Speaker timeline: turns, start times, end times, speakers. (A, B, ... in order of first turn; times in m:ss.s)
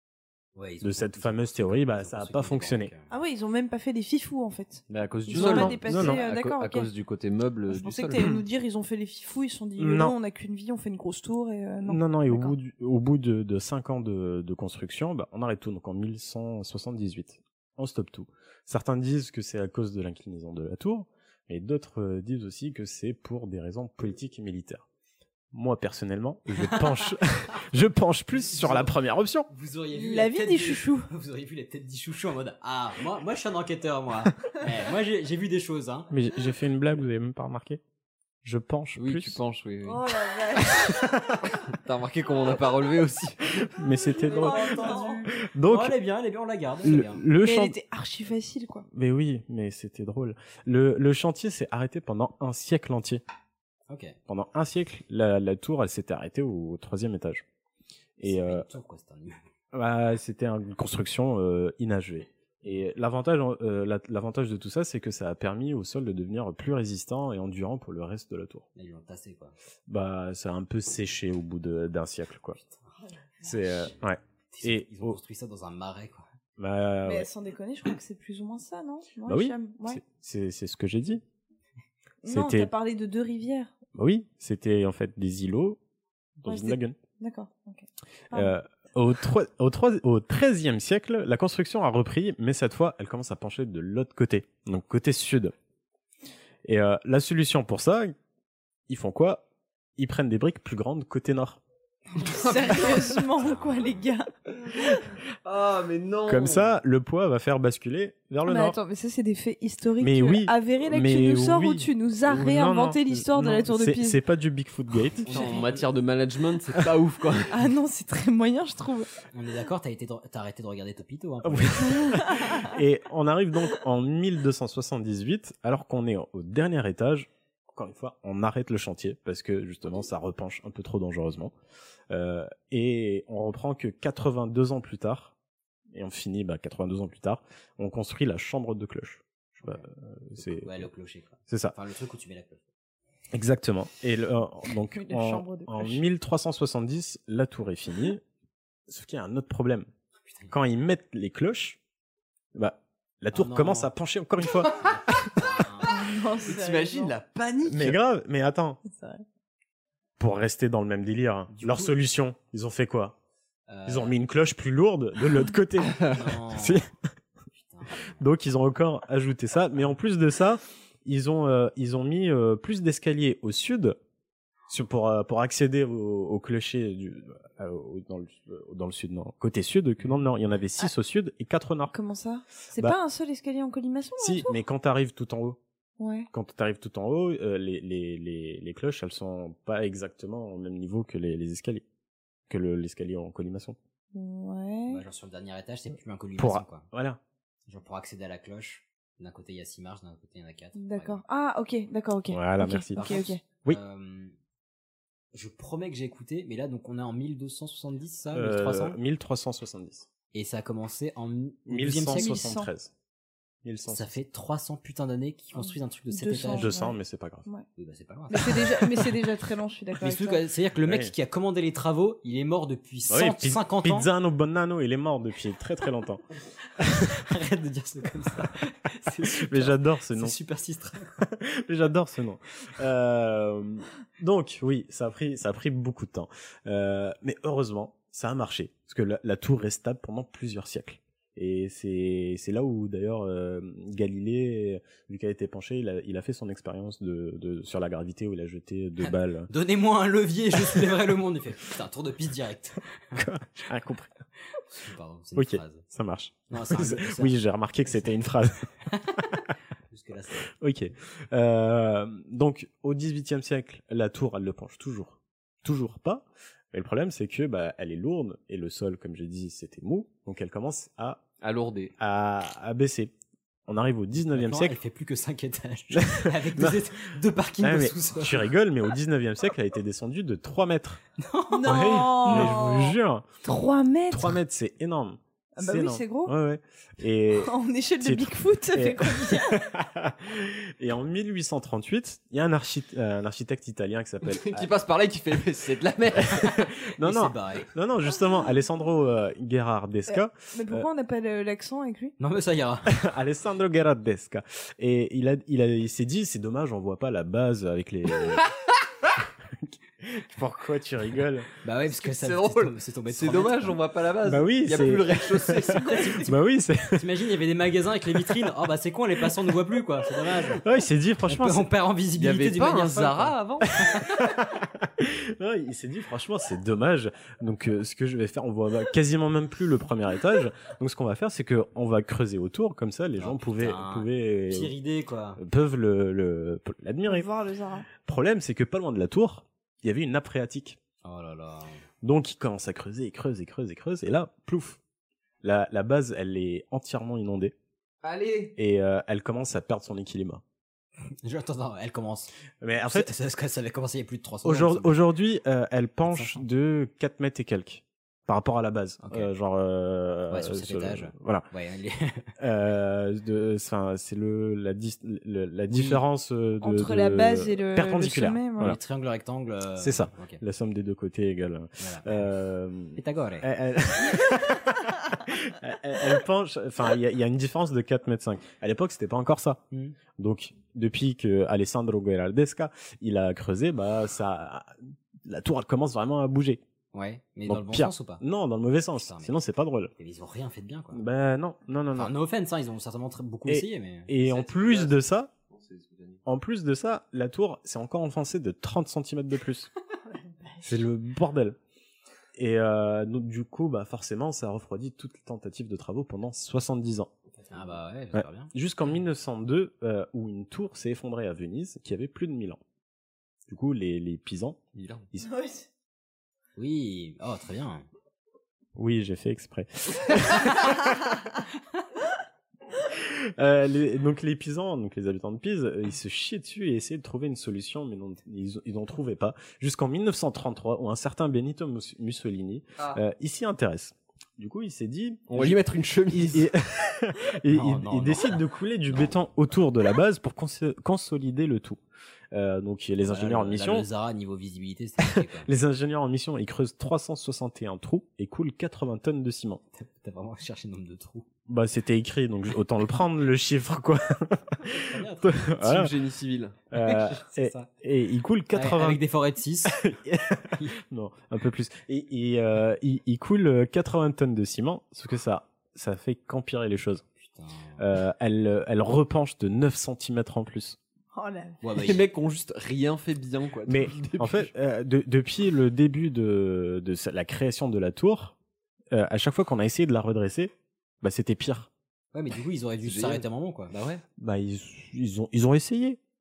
0:00.5-0:03.1 A
0:00.8-0:02.9 B
0:03.1-0:06.9 C
0:04.9-0:08.2 D
0:05.3-0:06.2 B
0:07.7-0:12.5 C
0:08.1-0:08.4 B
0:09.8-0:10.2 B
0:11.8-0:24.8 B
0:25.5-0:29.5 B
0:26.5-0:27.1 A
0:28.3-0:28.9 A
0:29.5-0:36.1 A
0:29.9-0:31.1 C
0:36.1-0:37.8 B
0:38.4-0:39.4 B
0:39.0-0:40.0 D
0:39.8-0:41.0 C
0:40.6-0:41.3 B
0:41.7-0:43.6 D
0:43.5-0:45.9 B
0:44.2-0:45.2 C
0:44.4-0:47.2 A
0:46.8-0:47.8 B
0:47.4-0:48.8 C
0:48.9-0:53.2 B
0:53.9-0:54.2 A
0:54.3-0:57.4 B
0:58.2-0:58.7 B
0:58.2-0:59.4 A
0:59.7-1:08.6 B
1:08.8-1:09.5 A
1:09.9-1:12.6 B
1:13.4-1:15.2 B
1:13.5-1:13.9 A
1:14.5-1:16.2 A
1:16.6-1:17.3 B
1:17.0-1:20.0 C
1:19.2-1:21.2 B
1:22.2-1:23.7 C
1:22.2-1:22.7 B
1:24.0-1:25.8 B
1:26.4-1:27.0 B
1:26.5-1:28.5 C
1:28.3-1:35.5 B
1:36.6-1:38.1 B
1:38.9-1:39.4 B
1:40.0-1:41.6 B
1:42.2-1:42.8 D
1:42.2-1:44.3 C
1:45.4-1:46.7 D
1:46.2-1:48.8 B
1:48.4-1:54.2 C
1:50.0-1:55.6 B
1:55.2-1:55.9 A
1:55.3-1:57.5 D
1:57.5-1:59.1 C
1:59.3-2:02.5 A
2:01.4-2:11.5 B
2:01.9-2:02.7 C
2:12.1-2:15.3 B
2:15.9-2:20.9 B
2:20.4-2:22.6 A
2:21.5-2:21.7 B
2:23.3-2:28.2 B
2:24.9-2:26.0 C
2:28.9-2:29.9 B
2:30.2-2:30.5 A
2:30.5-2:31.8 B
2:32.5-2:35.7 B
2:33.3-2:33.9 A
2:34.6-2:35.9 A
2:35.8-2:37.1 C
2:36.4-2:38.0 D
2:37.6-2:38.8 B
2:38.9-2:39.2 C
2:40.2-2:43.2 B
2:41.5-2:41.9 A
2:43.7-2:44.2 A
2:43.8-2:46.9 B
2:46.0-2:46.8 A
2:47.5-2:48.2 A
2:48.2-2:54.0 B
2:54.7-3:01.9 B
3:01.9-3:04.5 C
3:04.2-3:05.6 B
3:06.0-3:06.3 C
3:06.3-3:11.8 B
3:12.5-3:13.8 B
3:14.1-3:15.0 C
3:14.9-3:16.9 A
3:16.4-3:17.2 B
3:17.7-3:21.2 A
3:20.8-3:23.4 C
3:22.3-3:23.0 B
3:22.9-3:24.3 A
3:25.3-3:29.0 A
3:28.3-3:30.1 B
3:30.3-3:32.3 A
3:31.7-3:32.9 B
3:32.1-3:32.7 C
3:33.6-3:34.1 B
3:33.9-3:36.7 A
3:35.6-3:37.6 C
3:36.5-3:37.5 B
3:37.8-3:39.0 A
3:38.3-3:40.4 C
3:40.0-3:44.1 A
3:40.8-3:41.1 B
3:43.1-3:46.2 B
3:46.8-3:47.1 B
3:47.0-3:51.2 A
3:49.2-3:50.4 B
3:51.2-4:09.5 B
4:09.0-4:13.3 A
4:10.6-4:10.8 B
4:13.1-4:14.1 B
4:14.7-4:15.8 A
4:15.3-4:18.7 B
4:16.5-4:18.2 A
4:18.9-4:19.2 A
4:19.9-4:20.5 A
4:20.5-4:31.2 B
4:31.4-4:31.9 D
4:32.0-4:33.1 B
4:33.7-4:34.8 B
4:34.3-4:38.5 A
4:35.9-4:36.8 B
4:37.6-4:41.0 B
4:41.2-4:42.5 A
4:41.5-4:44.4 C
4:41.6-4:43.2 B
4:44.1-4:54.7 B
4:45.6-4:46.3 C
4:47.4-4:49.6 C
4:54.2-4:56.4 D
4:56.2-5:00.9 B
4:56.6-4:57.7 A
5:00.1-5:02.1 C
5:02.2-5:02.9 A
5:02.8-5:08.4 B
5:09.6-5:11.5 B
5:11.6-5:13.8 A
5:11.9-5:16.3 D
5:14.2-5:17.1 B
5:15.8-5:16.2 C
5:16.9-5:20.6 A
5:18.1-5:18.4 B
5:20.6-5:21.7 B
5:21.3-5:23.3 A
5:22.2-5:23.7 D
5:23.8-5:34.7 B
5:33.2-5:35.4 A
5:35.4-5:37.3 B
5:37.0-5:37.9 C
5:38.0-5:40.8 B
5:41.0-5:41.8 A
5:42.0-5:44.8 B
5:45.4-5:47.5 B
5:48.0-5:48.6 D
5:48.5-5:50.4 B
5:51.2-5:55.0 A
5:52.6-5:53.1 B
5:54.4-6:01.5 B
5:56.1-5:56.4 A
5:59.0-5:59.3 A
6:00.3-6:02.3 A
6:02.4-6:08.8 B
6:05.7-6:06.0 A
6:06.6-6:08.8 C
6:08.6-6:10.4 A
6:09.8-6:19.6 B
6:11.8-6:12.3 A
6:13.0-6:13.5 A
6:20.2-6:26.6 B
6:26.9-6:28.2 A
6:27.5-6:29.9 B
6:29.0-6:29.3 A
6:30.0-6:31.0 A
6:30.9-6:32.1 B
6:32.0-6:34.5 A
6:33.5-6:35.3 B
6:34.3-6:35.0 D
6:35.5-6:36.2 D
6:36.2-6:39.7 B
6:40.6-6:41.6 B
6:42.4-6:47.1 B
6:47.5-6:48.5 A
6:48.1-6:52.6 B
6:53.5-6:55.3 B
6:54.7-6:55.1 D
6:55.3-6:55.6 C
6:56.6-6:57.8 A
6:58.8-7:01.2 B
7:02.9-7:21.8 B
7:15.3-7:16.5 D
7:17.5-7:19.1 A
7:22.3-7:23.9 B
7:23.0-7:25.5 A
7:25.0-7:29.6 B
7:29.7-7:31.3 A
7:31.5-7:35.9 B
7:34.6-7:35.4 A
7:35.6-7:36.5 D
7:36.7-7:39.0 B
7:36.7-7:37.7 A
7:38.5-7:39.8 A
7:39.6-7:47.0 B
7:47.2-7:47.8 A
7:47.8-7:50.8 B
7:51.1-7:51.6 C
7:51.6-7:52.0 A
7:51.7-7:54.5 D
7:53.7-7:58.3 B
7:58.9-8:01.7 B
8:02.1-8:04.0 A
8:02.8-8:03.2 D
8:04.2-8:06.0 B